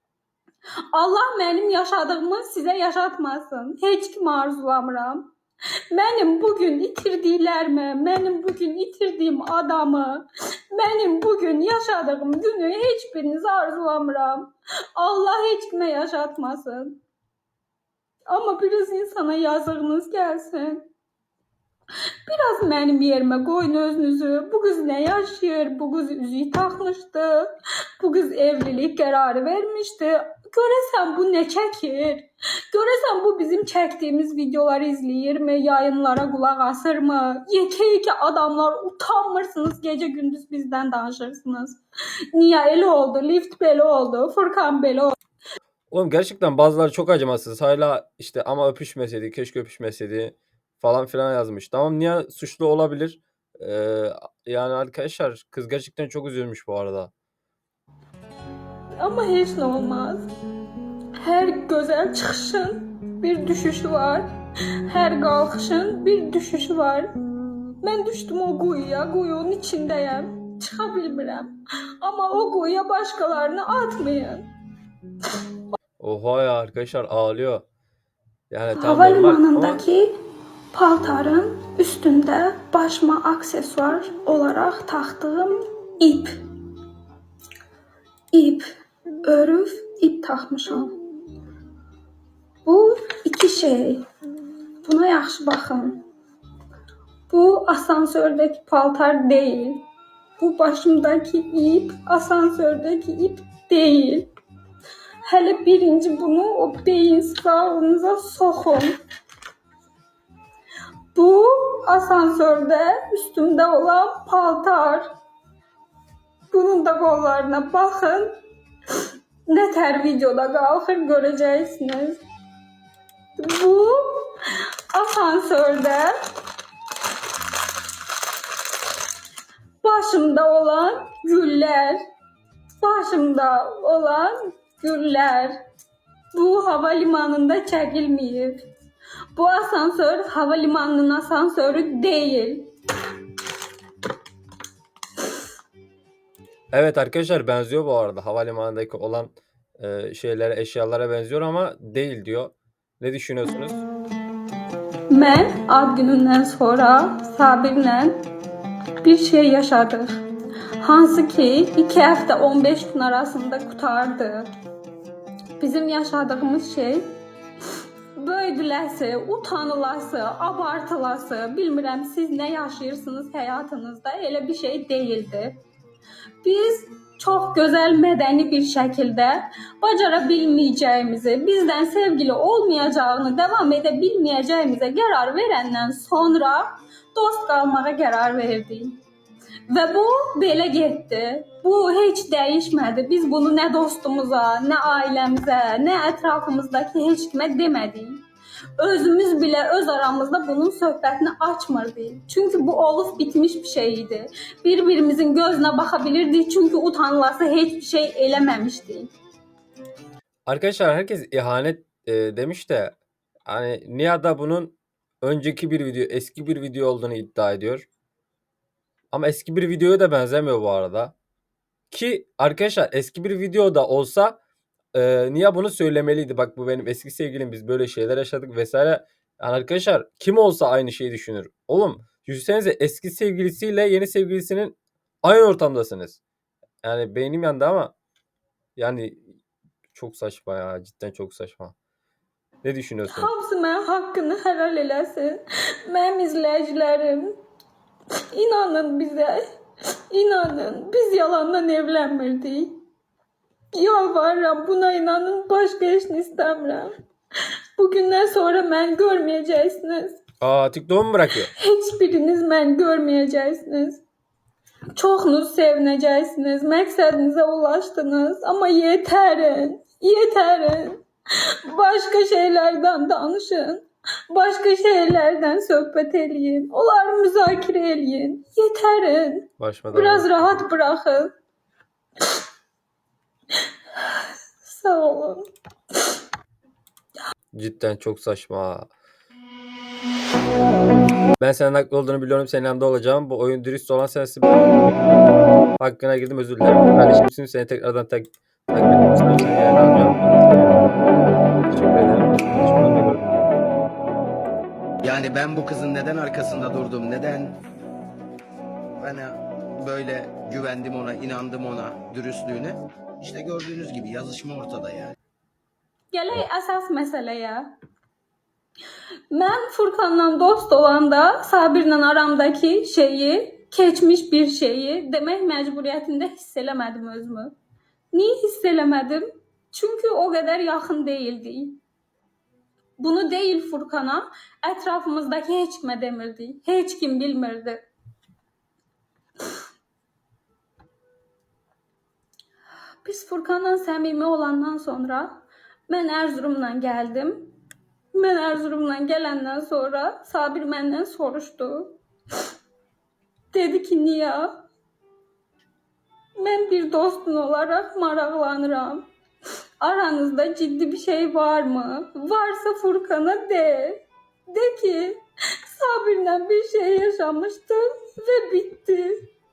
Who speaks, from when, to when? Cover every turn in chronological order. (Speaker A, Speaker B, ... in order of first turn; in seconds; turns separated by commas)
Speaker A: 0.9-5.3, Speaker A: 5.9-17.0, Speaker A: 18.3-20.9, Speaker A: 22.3-41.8, Speaker A: 42.3-45.1, Speaker B: 45.9-57.1, Speaker A: 59.0-60.3, Speaker A: 61.2-64.3, Speaker A: 64.9-67.1, Speaker A: 67.8-74.5, Speaker B: 76.0-77.6, Speaker B: 78.5-79.8, Speaker A: 78.7-80.1, Speaker A: 80.7-86.4, Speaker A: 88.3-88.7, Speaker A: 89.2-90.9, Speaker A: 92.7-94.0, Speaker A: 94.8-96.0, Speaker A: 97.3-99.8, Speaker A: 100.4-104.3, Speaker A: 105.3-109.0, Speaker A: 111.1-115.1, Speaker A: 116.5-118.4, Speaker A: 119.5-122.2, Speaker A: 123.4-126.1, Speaker A: 129.8-132.0, Speaker A: 132.8-135.6, Speaker A: 136.3-138.6, Speaker A: 139.3-142.7, Speaker B: 146.7-153.8, Speaker A: 155.1-158.2, Speaker A: 159.0-160.2, Speaker A: 160.8-164.5, Speaker A: 165.6-167.1, Speaker A: 168.2-175.6, Speaker A: 176.4-189.0, Speaker A: 189.7-198.2, Speaker A: 198.8-209.1, Speaker B: 210.4-212.9, Speaker B: 213.5-217.9, Speaker B: 219.1-221.1, Speaker B: 221.9-224.4, Speaker B: 224.9-236.2, Speaker B: 236.8-237.9, Speaker B: 238.8-239.2, Speaker B: 239.9-241.7, Speaker B: 242.6-243.3, Speaker A: 243.1-247.4, Speaker A: 248.3-249.4, Speaker A: 250.1-252.8, Speaker A: 253.7-256.9, Speaker A: 257.8-260.2, Speaker B: 260.4-261.5, Speaker A: 261.5-264.0, Speaker A: 264.9-271.0, Speaker A: 271.7-281.3, Speaker B: 279.6-280.6, Speaker A: 284.0-285.5, Speaker B: 287.6-288.9, Speaker B: 291.4-295.1, Speaker B: 295.8-300.7, Speaker B: 301.7-303.5, Speaker C: 305.0-307.6, Speaker C: 309.0-315.1, Speaker A: 316.1-317.8, Speaker A: 319.3-327.6, Speaker A: 328.1-331.8, Speaker A: 333.0-337.8, Speaker A: 343.0-347.5, Speaker A: 348.1-352.0, Speaker A: 353.5-354.5, Speaker A: 356.4-359.1, Speaker A: 359.8-369.3